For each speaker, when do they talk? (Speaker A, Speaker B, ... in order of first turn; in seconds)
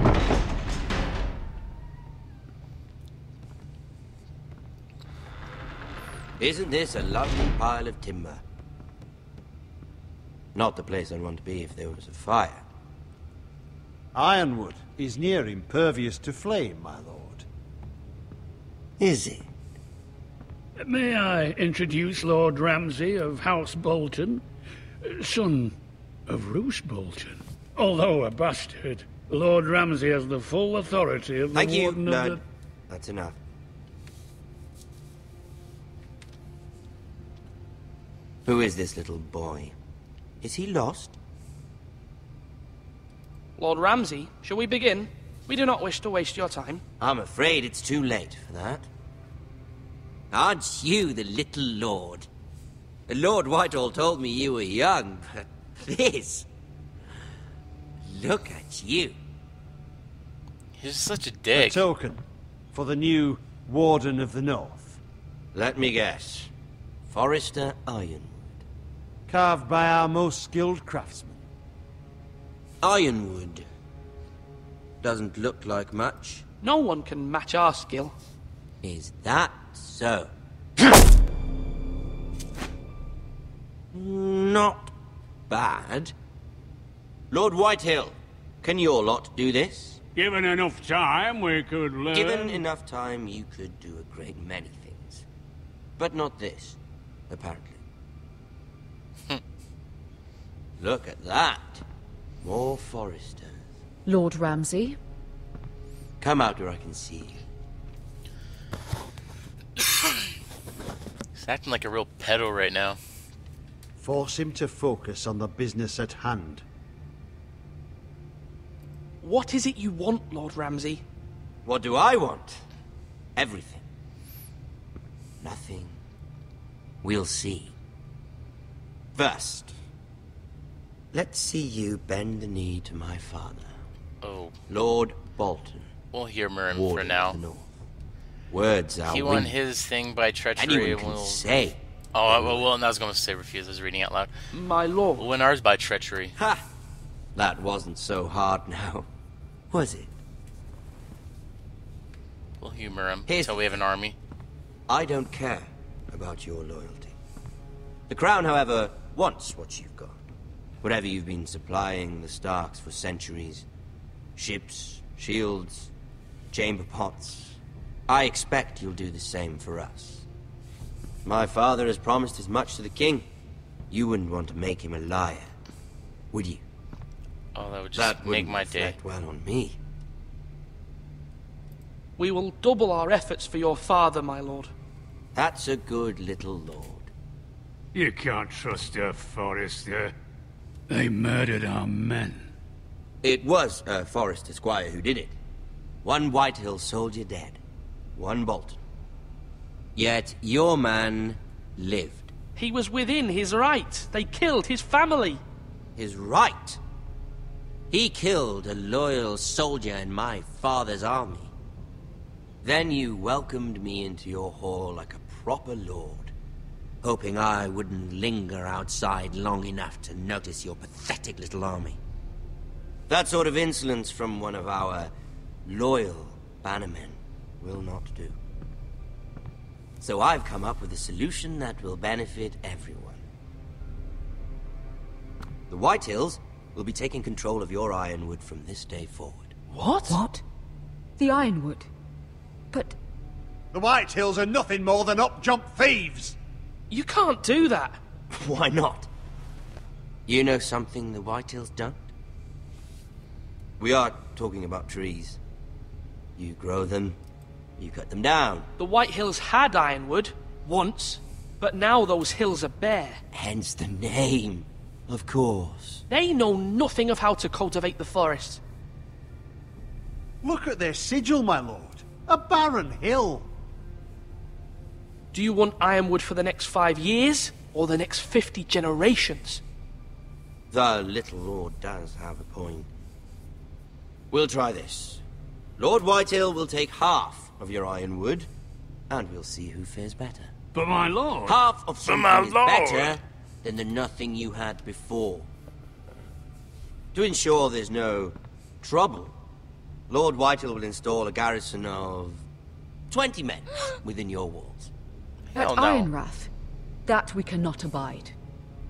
Speaker A: 6.4-8.4, 10.6-12.7, 19.0-19.5, 31.5-33.4, 38.5-39.8, 40.4-41.1, 47.0-48.9, 50.3-52.3, 53.1-56.5, 58.0-59.1, 65.5-66.5, 67.1-68.6, 72.8-73.7, 75.0-76.4, 78.8-80.3, 83.9-84.9, 85.5-86.1, 87.3-90.0, 92.1-95.2, 96.0-96.8, 97.3-97.8, 100.8-101.8, 102.4-103.7, 106.2-107.4, 121.7-122.6, 123.4-123.8, 125.4-126.0, 127.0-127.7, 129.2-129.7, 131.1-133.8, 134.7-135.9, 136.7-137.7, 138.5-139.6, 140.6-142.7, 146.4-146.6, 147.4-149.1, 149.7-150.1, 153.3-153.6, 154.9-157.2, 158.1-160.2, 160.8-163.7, 164.4-165.9, 166.5-170.2, 171.2-173.3, 173.9-175.5, 176.3-176.6, 177.9-179.8, 185.3-187.1, 193.2-195.3, 196.0-197.6, 198.2-198.8, 200.0-202.3, 206.0-206.8, 207.9-211.5, 212.6-216.3, 217.0-222.0, 223.1-225.1, 225.7-228.4, 230.0-233.2, 235.7-239.5, 248.3-249.1, 250.3-252.1, 253.8-255.4, 256.4-257.2, 257.8-258.7, 263.3-266.0, 280.7-282.9, 284.3-285.2, 285.8-288.5, 289.1-290.5, 291.4-295.5, 297.1-299.4, 300.1-302.4, 303.1-304.9
Speaker B: 14.1-17.4, 61.5-62.2, 62.7-65.0, 69.3-71.4, 114.0-116.6, 243.7-246.4, 270.4-273.5
Speaker C: 20.8-24.4, 25.0-25.8, 26.3-32.4, 90.2-92.6, 187.9-190.1, 190.9-192.5, 290.7-293.2
Speaker D: 43.6-46.8, 76.6-78.2, 119.2-121.0, 144.5-145.2, 182.2-184.7, 202.6-205.4, 239.7-240.2, 246.9-248.0, 258.8-263.2, 266.1-268.6, 275.3-279.6
Speaker E: 60.8-61.8, 111.3-113.0, 134.2-134.6, 136.1-137.4, 139.1-141.6, 142.1-144.3, 145.2-146.4, 152.6-154.2, 177.6-179.0, 305.5-306.1
Speaker F: 104.1-105.0, 240.1-240.4, 241.2-241.9, 242.7-243.0, 305.6-306.5, 307.1-308.4